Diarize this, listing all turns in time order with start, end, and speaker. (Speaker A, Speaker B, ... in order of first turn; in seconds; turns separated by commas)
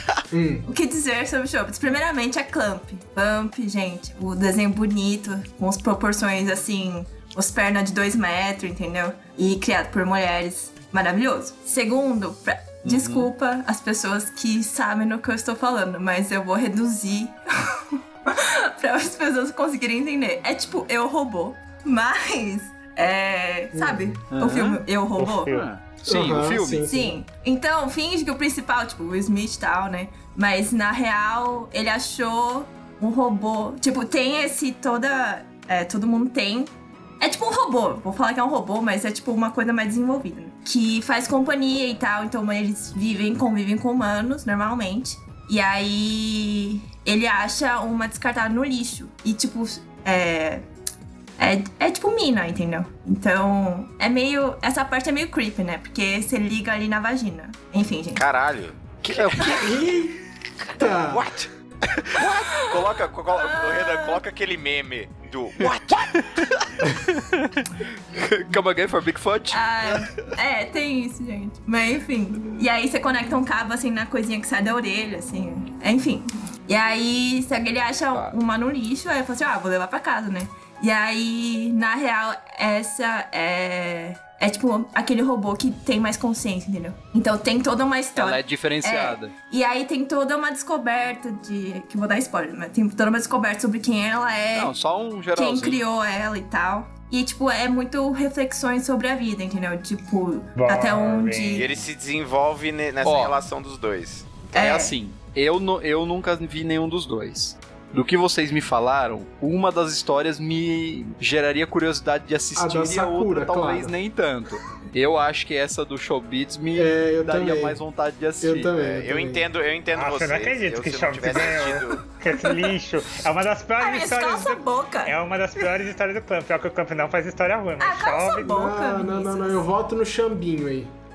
Speaker A: 0.3-0.7, Speaker B: 0.7-25.6, Speaker C: 12.8-13.3, Speaker A: 23.7-24.2, Speaker C: 24.3-24.8, Speaker D: 25.2-25.7, Speaker C: 25.5-26.9, Speaker A: 26.1-27.1, Speaker B: 26.8-50.6, Speaker B: 51.4-58.2, Speaker E: 58.2-59.8, Speaker C: 59.1-59.5, Speaker A: 59.4-60.2, Speaker A: 60.8-61.3, Speaker E: 61.1-66.7, Speaker B: 62.3-64.2, Speaker C: 65.6-70.0, Speaker B: 69.5-94.7, Speaker C: 88.2-89.3, Speaker C: 94.5-95.8, Speaker B: 95.3-101.7, Speaker D: 100.6-101.7, Speaker E: 101.5-104.5, Speaker C: 103.0-103.4, Speaker B: 104.5-104.9, Speaker C: 104.5-118.8, Speaker A: 112.5-114.0, Speaker A: 116.7-117.8, Speaker A: 118.4-119.5, Speaker E: 118.8-122.0, Speaker D: 119.9-128.6, Speaker B: 123.8-125.2, Speaker B: 127.8-129.6, Speaker A: 128.3-130.9